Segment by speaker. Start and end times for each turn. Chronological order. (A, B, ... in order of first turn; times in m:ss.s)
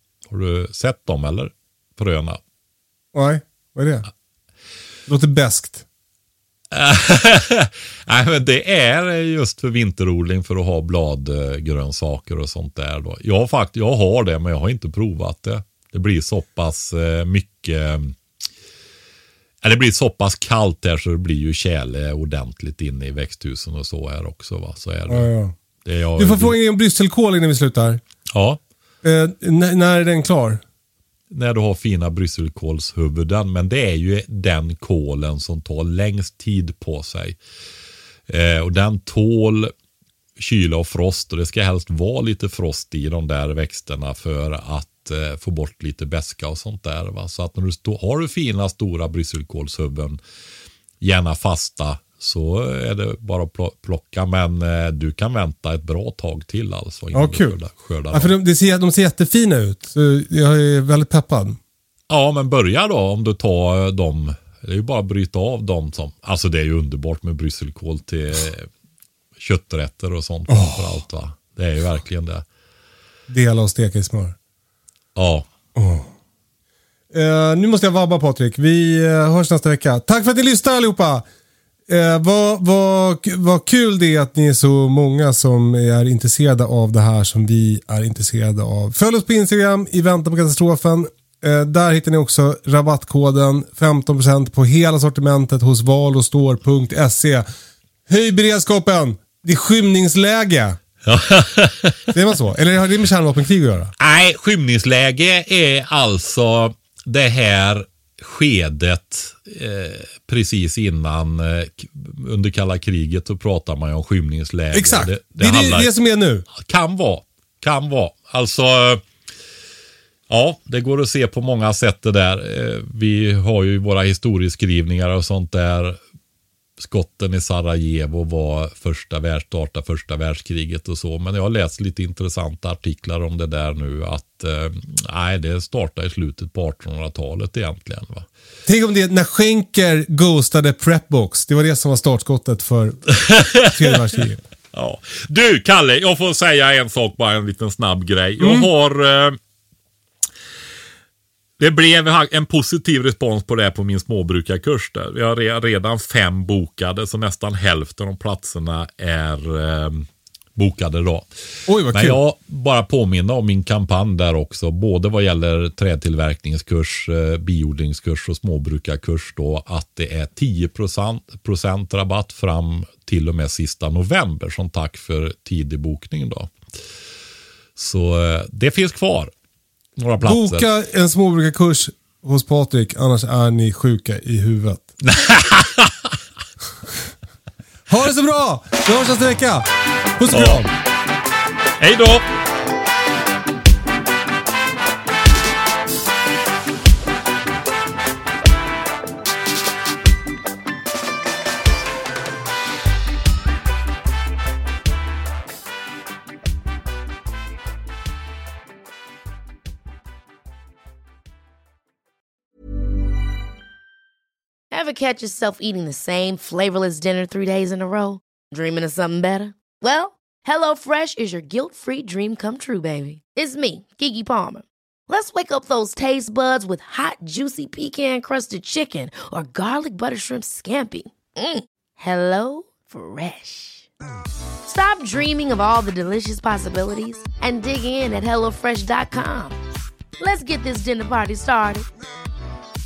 0:00.3-0:02.4 A
0:03.1-0:04.1 B
0:05.1-0:05.8 B
0:06.7-0:18.2 A
0:19.6-0:25.3 A
0:25.1-0:25.6 B
0:25.8-0:26.6 A
0:26.2-0:28.0 B
0:28.3-0:28.6 A
0:29.0-0:30.6 B
0:31.3-0:37.4 A
0:38.3-0:39.7 A
0:40.4-0:50.2 A
0:51.0-0:58.3 A
0:57.1-0:57.6 B
0:58.1-1:01.6 B
1:02.1-1:08.7 A
1:09.4-1:12.4 A
1:10.5-1:11.0 B
1:13.3-1:14.4 B
1:15.2-1:15.5 A
1:15.8-1:16.1 B
1:17.1-1:21.3 B
1:21.9-1:37.5 B
1:38.1-1:40.8 B
1:41.1-1:42.0 A
1:42.1-1:43.9 B
1:44.0-1:55.9 A
1:54.7-1:56.4 B
1:56.5-1:59.0 A
2:00.3-2:06.0 A
2:06.8-2:18.3 A
2:18.7-2:24.4 B
2:23.2-2:23.9 A
2:24.7-2:29.4 A
2:28.4-2:28.7 B
2:31.6-2:41.3 A
2:41.7-2:42.2 B
2:41.9-2:56.5 A
2:57.8-2:59.3 A
3:00.0-3:00.7 A
3:00.2-3:04.9 B
3:05.0-3:05.9 A
3:07.9-3:10.7 B
3:10.3-3:10.6 A
3:11.8-3:12.2 A
3:34.7-3:53.9 C
3:54.6-3:59.6 C
4:00.2-4:01.9 C